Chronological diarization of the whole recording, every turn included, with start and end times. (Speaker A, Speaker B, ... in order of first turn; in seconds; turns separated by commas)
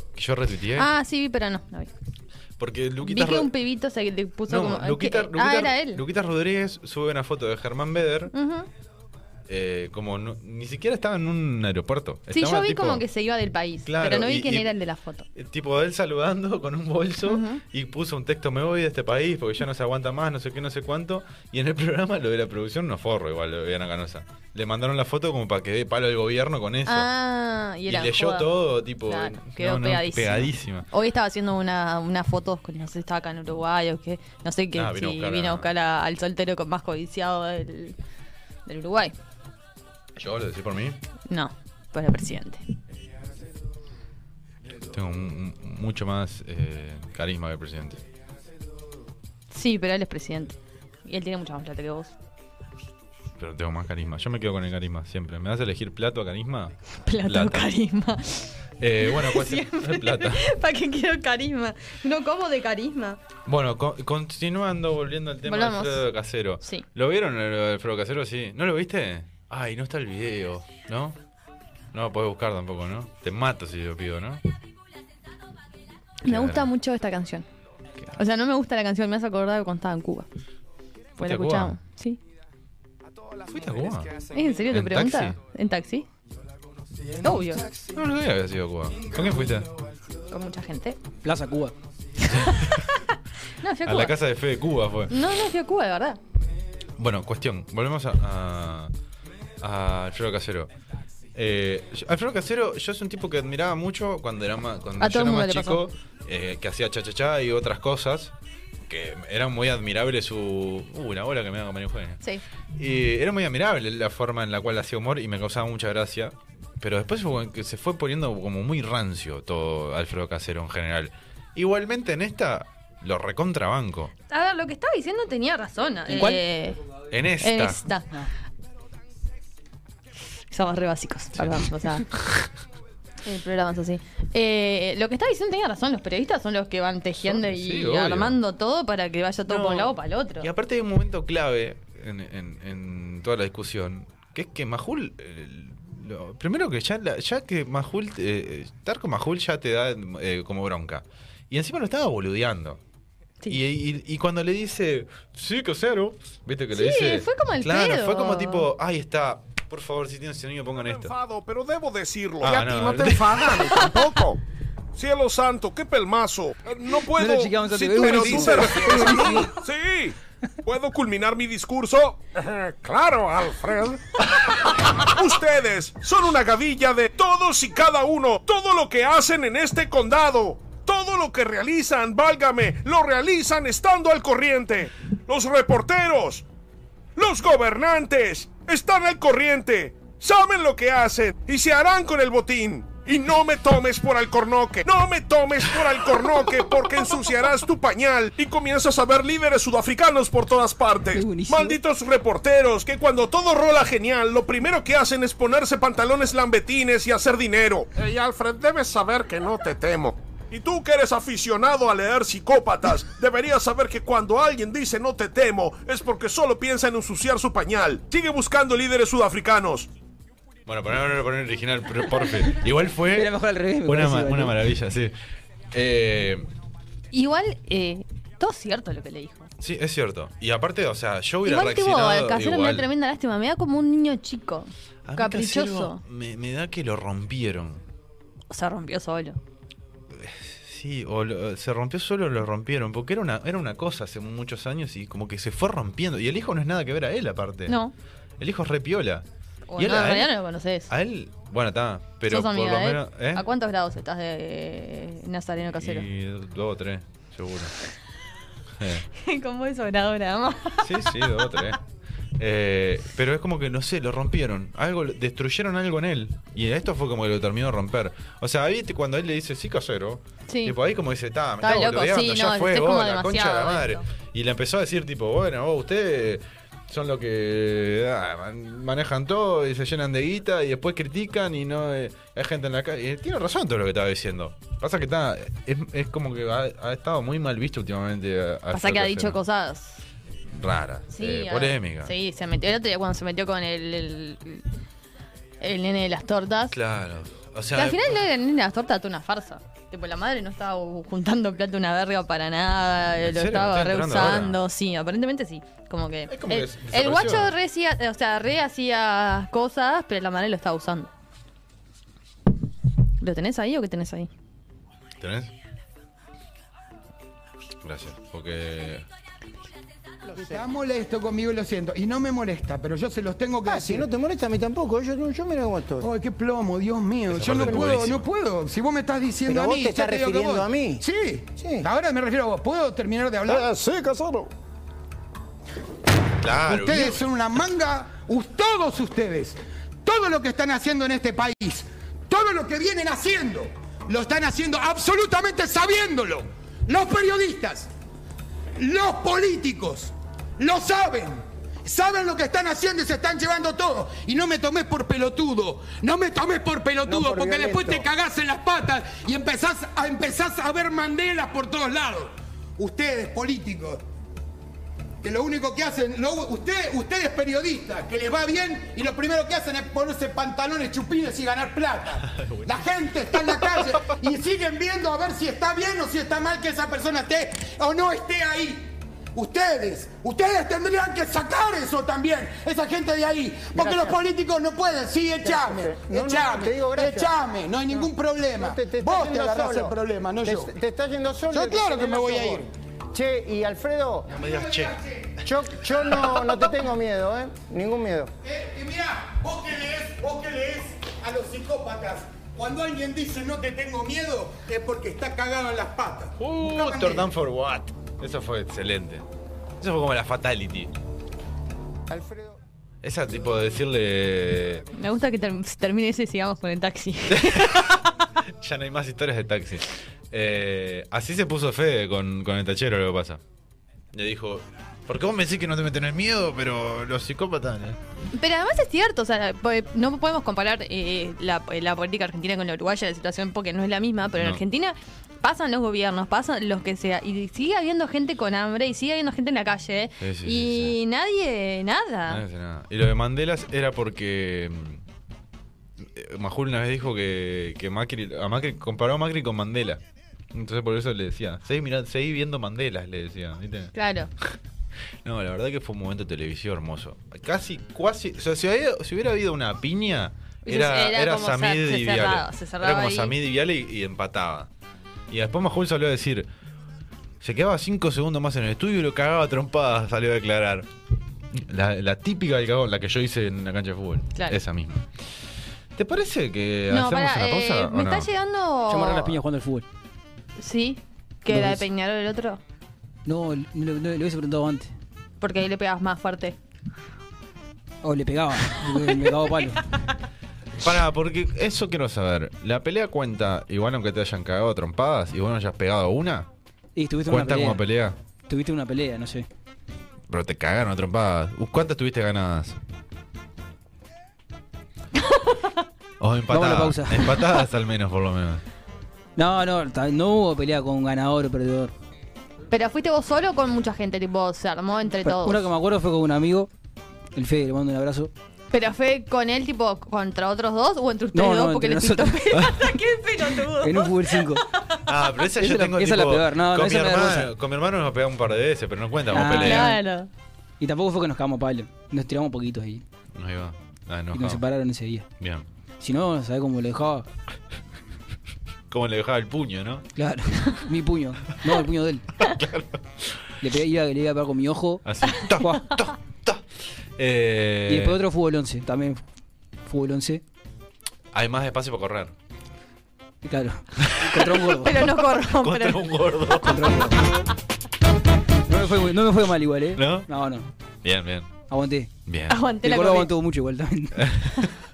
Speaker A: 0.1-0.9, Speaker B: 0.7-1.9, Speaker A: 2.6-3.5, Speaker B: 3.0-6.0, Speaker A: 4.5-8.3, Speaker B: 8.3-8.7, Speaker A: 9.5-13.0, Speaker B: 12.3-15.3, Speaker A: 13.8-14.7, Speaker A: 15.3-27.1, Speaker B: 17.2-17.6, Speaker B: 26.9-28.5, Speaker A: 27.9-30.9, Speaker B: 29.0-38.0, Speaker A: 34.7-35.7, Speaker B: 38.6-39.1, Speaker A: 40.1-41.0, Speaker B: 41.3-42.6, Speaker A: 44.9-48.0, Speaker B: 49.5-52.1, Speaker A: 53.4-57.7, Speaker B: 57.0-63.2, Speaker A: 58.8-60.4, Speaker A: 63.5-71.2, Speaker B: 65.4-66.0, Speaker A: 71.9-74.4, Speaker A: 76.2-76.7, Speaker B: 76.2-77.5, Speaker B: 78.2-80.3, Speaker B: 81.2-82.2, Speaker A: 81.2-81.8, Speaker A: 83.5-84.1, Speaker B: 84.3-86.0, Speaker A: 84.7-85.4, Speaker B: 87.2-87.6, Speaker A: 87.9-89.7, Speaker B: 90.3-91.0, Speaker C: 91.2-91.7, Speaker B: 92.2-94.2, Speaker A: 92.4-92.7, Speaker A: 93.8-95.1, Speaker B: 95.1-96.2, Speaker A: 97.0-98.9, Speaker A: 99.6-100.7, Speaker A: 101.3-108.3, Speaker B: 105.0-105.8, Speaker A: 108.9-112.2, Speaker A: 112.7-124.1, Speaker B: 124.3-126.8, Speaker C: 126.1-126.4, Speaker A: 127.1-127.8, Speaker B: 127.4-128.1, Speaker B: 130.5-132.1, Speaker A: 131.3-132.0, Speaker B: 133.2-140.5, Speaker A: 137.2-138.4, Speaker A: 139.5-152.8, Speaker A: 153.5-161.1, Speaker B: 156.7-158.7, Speaker D: 160.8-164.4, Speaker A: 162.4-163.7, Speaker D: 164.9-174.0, Speaker C: 167.1-169.5, Speaker D: 174.6-186.4, Speaker D: 187.2-219.9, Speaker C: 201.1-201.8, Speaker A: 220.7-223.3, Speaker C: 223.1-224.6, Speaker A: 223.8-225.1, Speaker A: 225.7-226.5, Speaker B: 227.1-229.5, Speaker A: 229.6-232.9, Speaker B: 231.4-236.0, Speaker A: 235.0-237.8, Speaker B: 238.5-239.4, Speaker A: 240.1-247.8, Speaker B: 247.7-247.9, Speaker A: 248.4-250.3, Speaker B: 249.7-250.9, Speaker A: 250.9-253.4, Speaker B: 252.3-256.1, Speaker A: 255.7-257.7, Speaker A: 258.8-259.1, Speaker B: 259.1-261.6, Speaker A: 260.8-261.8, Speaker A: 262.4-289.4, Speaker B: 270.5-270.8, Speaker B: 271.6-274.0, Speaker B: 288.7-290.0, Speaker A: 290.5-292.1, Speaker B: 291.1-294.6, Speaker B: 295.6-296.8, Speaker A: 296.7-298.2, Speaker B: 297.7-311.1, Speaker A: 303.2-304.6, Speaker A: 306.3-307.5, Speaker B: 313.2-314.3, Speaker A: 315.2-315.5, Speaker A: 317.8-319.1, Speaker E: 320.3-320.6, Speaker F: 320.3-324.1, Speaker E: 323.6-326.1, Speaker F: 326.0-333.7, Speaker A: 327.3-328.3, Speaker E: 327.6-327.9, Speaker E: 329.4-331.9, Speaker E: 333.5-334.4, Speaker A: 336.4-337.2, Speaker F: 336.6-347.9, Speaker F: 348.8-364.0, Speaker E: 357.0-358.1, Speaker F: 365.2-390.7, Speaker A: 372.2-372.8, Speaker E: 383.7-384.2, Speaker E: 385.4-387.3, Speaker E: 387.9-394.3, Speaker F: 391.5-392.7, Speaker A: 394.3-394.9, Speaker F: 394.3-395.4, Speaker E: 395.4-398.3, Speaker F: 396.2-396.6, Speaker F: 398.4-407.2, Speaker A: 406.4-409.2, Speaker A: 409.8-410.9, Speaker E: 412.1-412.6, Speaker A: 413.0-414.8, Speaker B: 414.9-418.0, Speaker A: 417.3-417.9, Speaker A: 418.6-423.4, Speaker A: 424.1-428.0, Speaker B: 428.3-442.4, Speaker A: 434.4-434.6, Speaker A: 440.2-440.9, Speaker A: 442.3-445.0, Speaker A: 446.0-450.0, Speaker A: 450.5-453.9, Speaker B: 453.9-454.3, Speaker A: 455.2-464.7, Speaker B: 460.6-463.4, Speaker A: 465.3-466.5, Speaker A: 467.4-470.9, Speaker A: 471.5-475.1, Speaker B: 474.3-474.6, Speaker A: 475.9-478.3, Speaker B: 476.9-479.4, Speaker C: 478.9-479.8, Speaker B: 480.6-482.6, Speaker C: 481.5-481.8, Speaker C: 483.2-484.9, Speaker B: 485.4-486.6, Speaker C: 488.0-489.8, Speaker B: 489.0-489.3, Speaker A: 490.8-496.5, Speaker C: 496.9-497.8, Speaker A: 497.3-498.1, Speaker C: 498.5-499.5, Speaker A: 500.3-502.8, Speaker B: 505.2-505.7, Speaker A: 506.2-508.6, Speaker C: 506.5-507.3, Speaker C: 509.4-511.9, Speaker B: 512.7-515.6, Speaker C: 515.2-516.7, Speaker C: 517.3-518.3, Speaker B: 518.7-524.6, Speaker C: 521.3-522.8, Speaker C: 523.7-524.6, Speaker A: 525.1-529.9, Speaker C: 525.6-527.5, Speaker C: 529.3-530.0, Speaker B: 529.3-530.3, Speaker C: 530.8-533.0, Speaker A: 533.3-534.6, Speaker C: 534.3-535.2, Speaker A: 535.4-535.6, Speaker C: 536.0-537.2, Speaker A: 538.9-540.0, Speaker C: 540.1-542.2, Speaker A: 542.4-543.3, Speaker C: 543.6-545.0, Speaker A: 545.0-546.6, Speaker C: 545.6-545.8, Speaker A: 547.2-548.2, Speaker C: 547.9-549.2, Speaker C: 549.9-550.4, Speaker A: 551.3-552.3, Speaker C: 553.4-555.0, Speaker A: 554.0-554.4, Speaker B: 554.8-556.0, Speaker A: 555.3-556.9, Speaker C: 556.6-557.2, Speaker C: 558.7-560.7, Speaker A: 560.0-560.3, Speaker A: 561.0-561.5, Speaker C: 561.7-562.1, Speaker A: 562.2-562.6, Speaker B: 562.5-563.3, Speaker C: 562.8-564.2, Speaker A: 564.2-564.7